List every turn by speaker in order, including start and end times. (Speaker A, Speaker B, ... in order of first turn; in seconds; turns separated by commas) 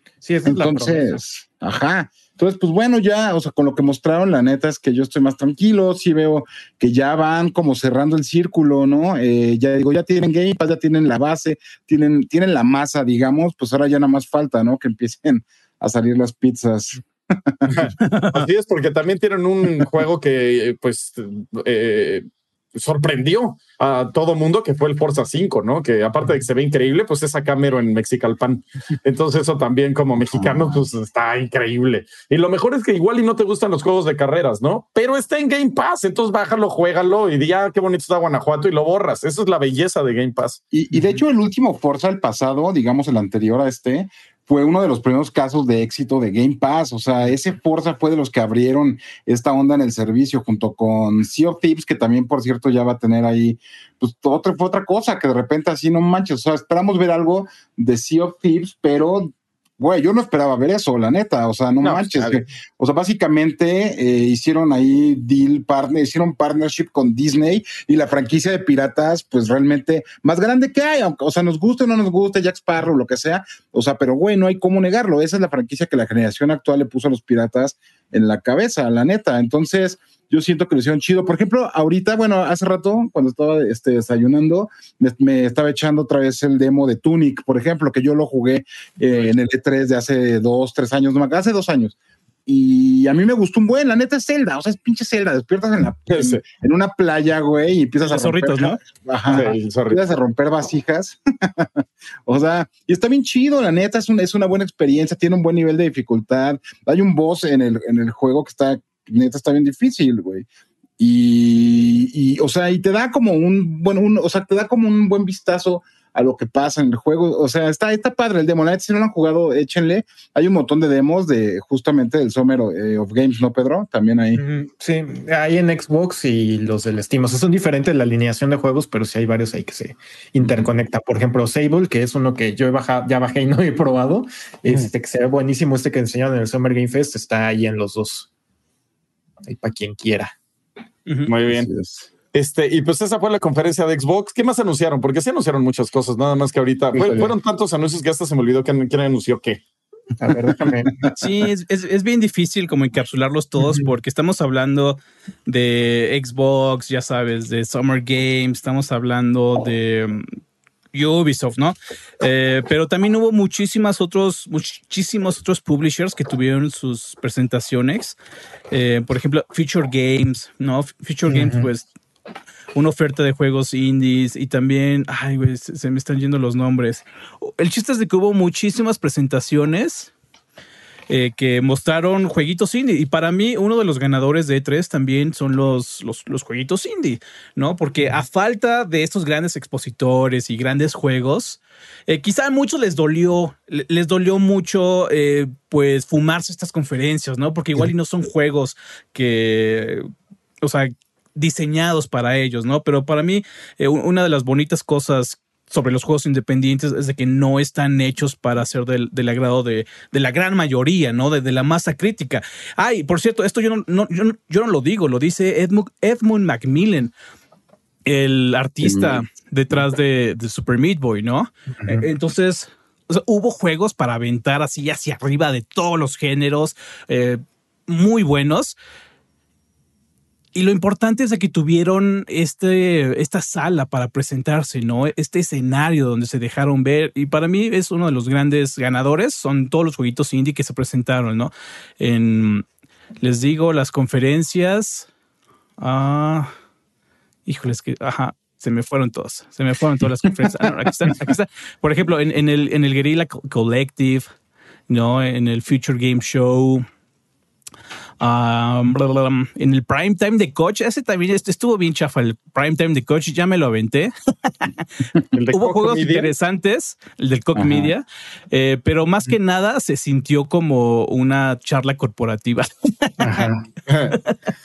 Speaker A: 0.2-1.2, Speaker B: 0.5-17.8, Speaker C: 17.7-40.6, Speaker D: 18.0-18.4, Speaker B: 40.7-92.0, Speaker C: 61.8-62.4, Speaker B: 92.5-101.7, Speaker C: 96.1-96.4, Speaker D: 98.0-98.8, Speaker C: 99.3-100.0, Speaker B: 102.3-110.5, Speaker B: 111.0-124.4, Speaker A: 124.4-138.3, Speaker A: 139.4-140.3, Speaker C: 141.3-141.7, Speaker B: 141.5-142.1, Speaker C: 142.3-149.6, Speaker A: 146.9-147.3, Speaker A: 150.2-151.1, Speaker D: 151.2-160.4, Speaker A: 153.6-153.9, Speaker D: 160.9-168.2, Speaker D: 168.7-171.9, Speaker A: 171.3-171.7, Speaker D: 172.8-180.1, Speaker D: 181.1-200.1, Speaker D: 200.6-217.1, Speaker D: 218.1-228.8, Speaker B: 218.8-219.2, Speaker D: 230.5-242.6, Speaker D: 243.2-245.1, Speaker D: 245.8-246.5, Speaker D: 247.5-254.3, Speaker D: 254.9-256.9, Speaker D: 258.2-264.9, Speaker C: 265.3-266.3, Speaker D: 265.5-273.4, Speaker B: 267.6-267.9, Speaker A: 273.2-273.6, Speaker C: 273.9-274.2